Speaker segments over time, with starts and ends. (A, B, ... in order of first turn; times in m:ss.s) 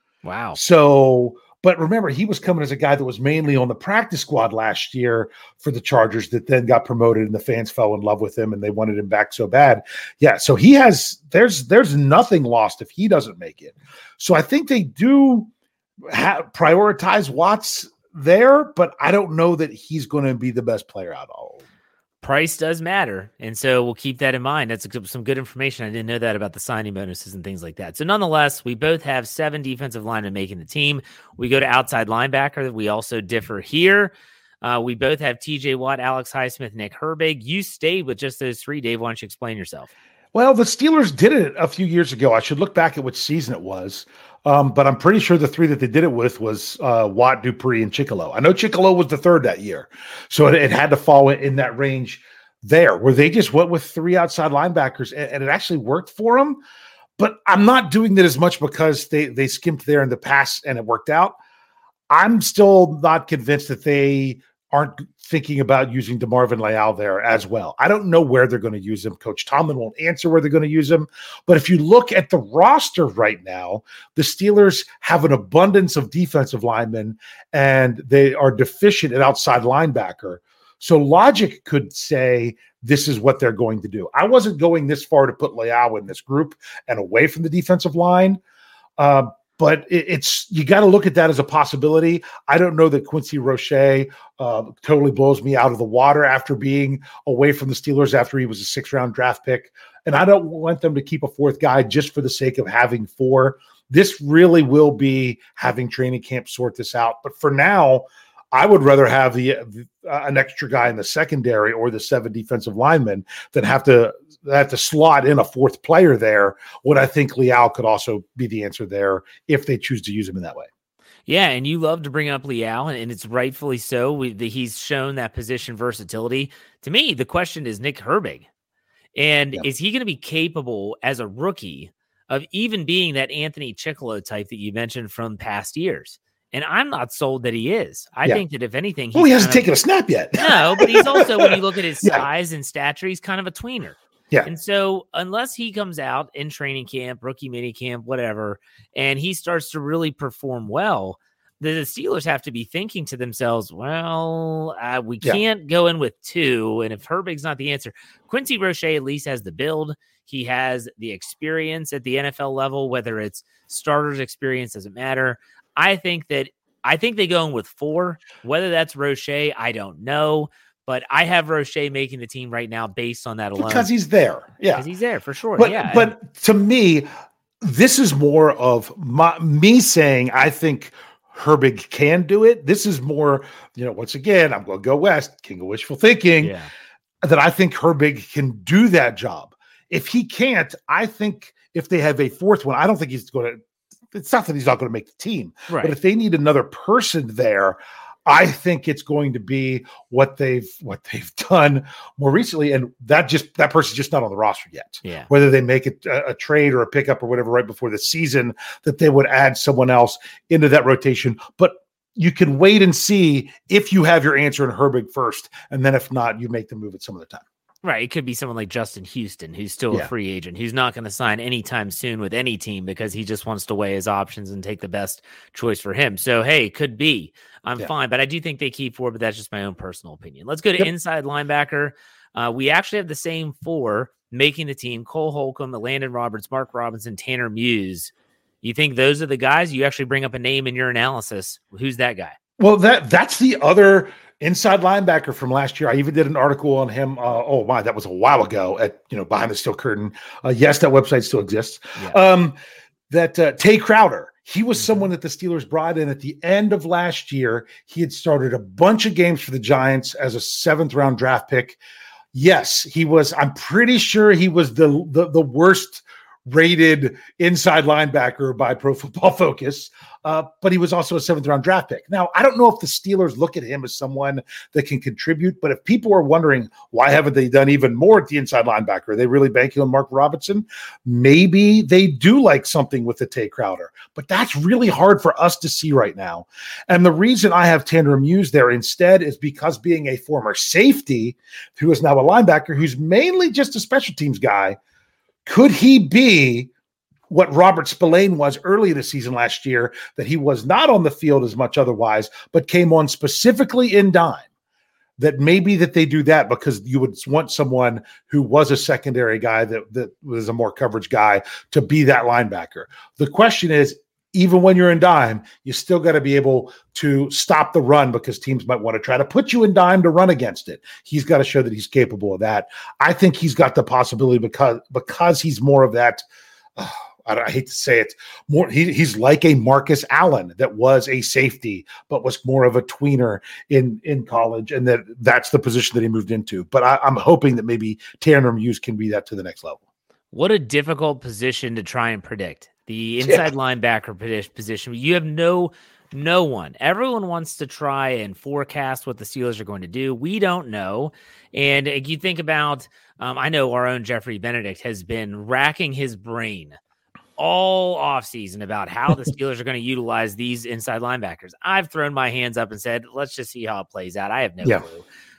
0:00.2-0:00.6 A
0:00.6-0:15.5 B
0:16.1-0:21.6 B
0:22.2-0:39.9 A
0:40.3-0:56.6 B
0:57.2-1:01.4 B
1:02.1-1:28.4 B
1:29.0-2:00.7 B
2:01.3-2:08.5 A
2:09.2-2:19.7 A
2:19.2-2:22.2 B
2:20.4-2:53.9 A
2:53.6-2:54.9 B
2:54.7-2:56.1 A
2:55.6-2:57.1 B
2:57.6-3:06.5 B
3:06.4-3:06.7 A
3:07.2-3:13.6 B
3:14.1-3:37.4 B
3:15.7-3:16.0 A
3:25.0-3:25.3 A
3:37.8-4:02.4 A
4:02.6-4:12.6 B
4:13.1-4:21.8 B
4:22.3-4:54.8 B
4:55.5-4:56.7 B
4:57.3-5:04.4 B
5:05.2-5:26.2 B
5:26.8-5:39.8 B
5:40.3-5:56.8 A
5:57.4-6:05.0 A